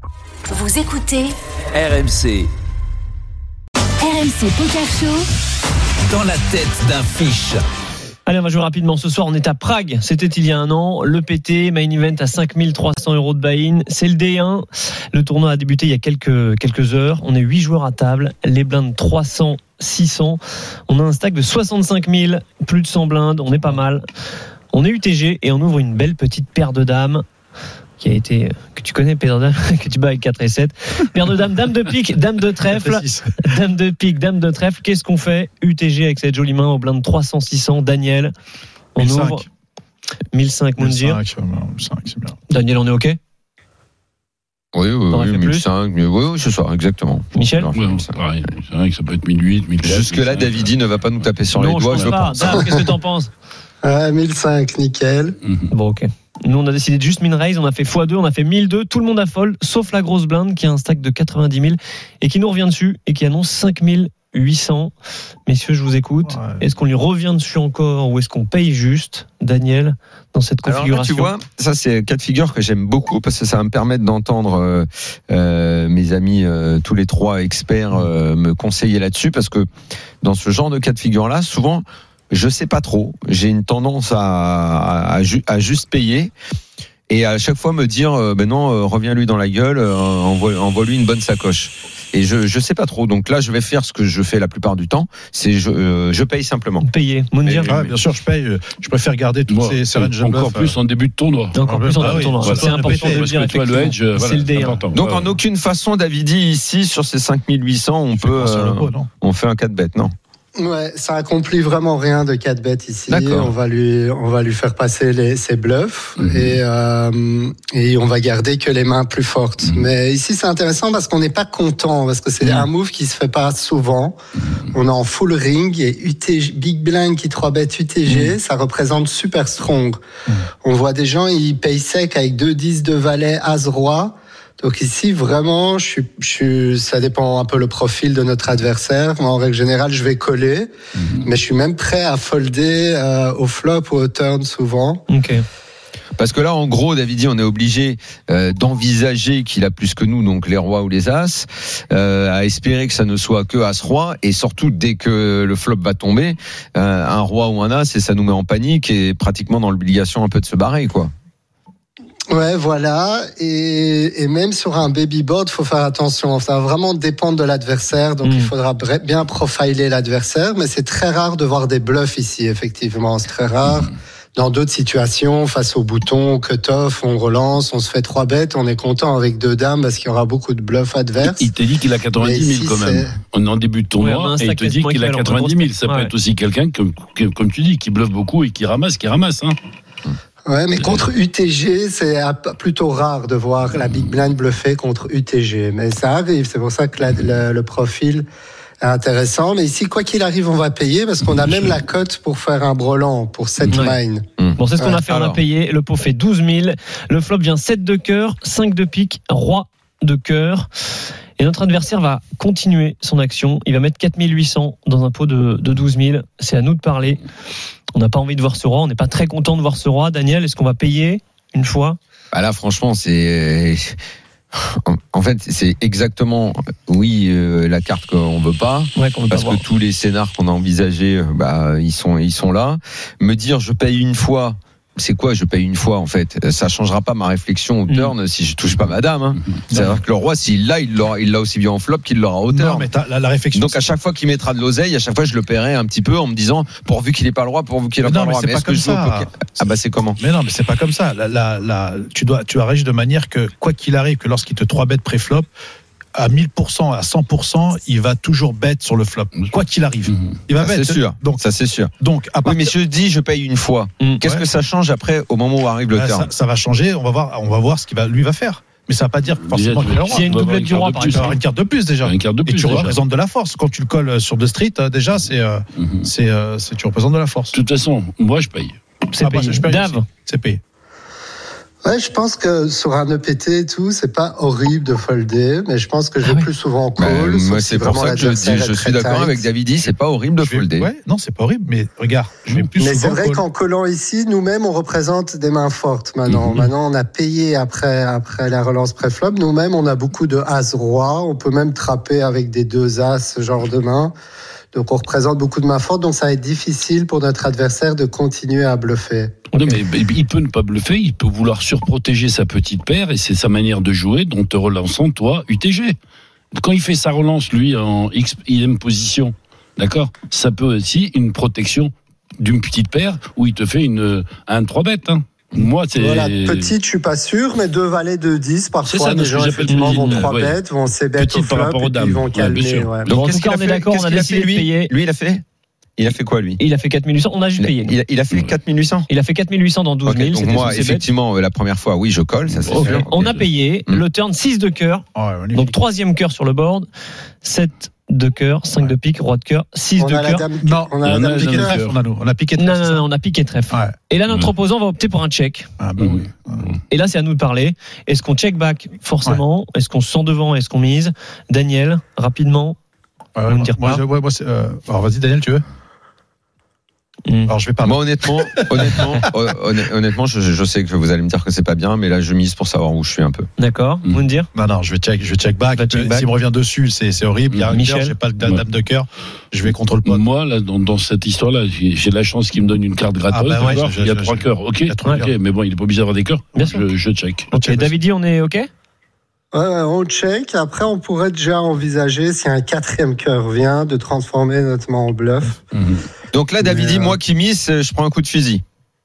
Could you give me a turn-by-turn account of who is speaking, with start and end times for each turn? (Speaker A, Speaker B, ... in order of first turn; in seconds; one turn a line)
Speaker A: 0.5-1.3
Speaker B: 1.9-2.5
Speaker A: 4.0-5.2
Speaker B: 6.1-7.6
Speaker C: 8.2-24.0
Speaker C: 24.7-27.2
Speaker C: 28.0-38.3
Speaker D: 32.7-33.3
Speaker C: 38.9-39.4
Speaker D: 39.0-39.5
Speaker C: 40.3-41.2
Speaker D: 40.8-42.4
Speaker C: 42.5-43.2
Speaker E: 44.7-48.2
Speaker C: 45.1-45.7
Speaker C: 47.3-47.7
Speaker F: 47.7-50.7
Speaker E: 49.8-52.6
Speaker C: 51.5-53.3
Speaker G: 53.8-55.4
Speaker F: 55.4-55.7
Speaker C: 55.7-64.9
Speaker C: 65.5-71.3
Speaker D: 66.3-66.6
Speaker E: 70.6-79.7
Speaker E: 80.2-86.3
Speaker E: 87.1-96.8
Speaker C: 96.8-97.7
Speaker E: 97.4-97.8
Speaker D: 97.7-100.8
Speaker F: 99.5-101.5
Speaker C: 101.5-104.8
Speaker D: 101.6-103.3
Speaker F: 102.4-105.3
Speaker E: 104.9-110.1
Speaker D: 108.2-109.1
Speaker G: 110.6-124.2
Speaker E: 113.1-113.5
Speaker F: 116.2-116.6
Speaker G: 124.7-130.0
Speaker G: 130.6-145.0
Speaker C: 145.1-145.4
Speaker E: 146.2-161.1
Speaker G: 162.3-181.5
Speaker C: 168.2-168.5
Speaker F: 181.2-189.6
Speaker G: 182.2-183.1
Speaker C: 184.0-186.1
Speaker G: 190.4-198.2
Speaker F: 190.8-191.1
Speaker G: 198.8-204.2
Speaker C: 203.7-204.0
Speaker E: 204.4-205.4
Speaker C: 204.6-210.7
Speaker G: 204.8-205.0
Speaker C: 211.4-217.2
Speaker C: 217.9-222.0
Speaker E: 222.3-223.9
Speaker E: 224.6-242.9
Speaker C: 228.9-229.6
Speaker D: 239.7-240.0
Speaker D: 242.5-243.9
Speaker E: 243.5-250.2
Speaker D: 248.0-255.5
Speaker D: 256.1-261.4
Speaker E: 260.6-261.9
Speaker D: 262.0-262.7
Speaker E: 262.4-266.3
Speaker D: 265.9-270.3
Speaker F: 269.5-271.4
Speaker C: 270.1-271.4
Speaker D: 271.1-277.6
Speaker F: 272.0-272.9
Speaker F: 275.8-276.1
Speaker F: 277.5-278.8
Speaker C: 279.1-280.0
Speaker D: 279.2-280.6
Speaker G: 281.8-289.5
Speaker E: 287.0-290.9
Speaker D: 290.4-293.4
Speaker G: 292.8-304.1
Speaker G: 304.7-309.4
Speaker C: 309.5-309.8
Speaker F: 309.6-316.0
Speaker F: 316.5-326.7
Speaker G: 325.9-333.1
Speaker F: 328.8-330.6
Speaker C: 329.7-330.2
Speaker F: 331.2-333.2
Speaker E: 333.1-335.4
Speaker C: 333.1-334.9
Speaker E: 336.0-336.6
Speaker C: 336.6-337.9
Speaker E: 337.6-339.1
Speaker C: 339.1-341.1
Speaker E: 340.1-343.2
Speaker F: 342.6-343.4
Speaker C: 342.6-346.9
Speaker D: 345.1-345.7
Speaker C: 347.4-350.4
Speaker G: 350.0-351.8
Speaker D: 350.6-353.0
Speaker F: 351.0-351.9
Speaker C: 352.6-355.7
Speaker D: 353.7-353.9
Speaker D: 355.8-356.7
Speaker F: 356.0-356.8
Speaker C: 356.9-362.8
Speaker D: 363.4-365.6
Speaker C: 363.5-364.0
Speaker C: 367.3-367.5
Speaker D: 367.5-369.0
Speaker E: 367.8-373.5
Speaker C: 373.6-374.5
Speaker D: 374.5-380.2
Speaker C: 375.8-376.3
Speaker F: 377.5-377.7
Speaker C: 377.7-378.1
Speaker F: 380.0-387.5
Speaker D: 383.3-385.3
Speaker C: 386.5-386.8
Speaker C: 387.5-388.7
Speaker D: 387.5-387.9
Speaker G: 389.5-395.6
Speaker F: 395.7-396.0
Speaker E: 396.3-398.6
Speaker G: 396.6-397.2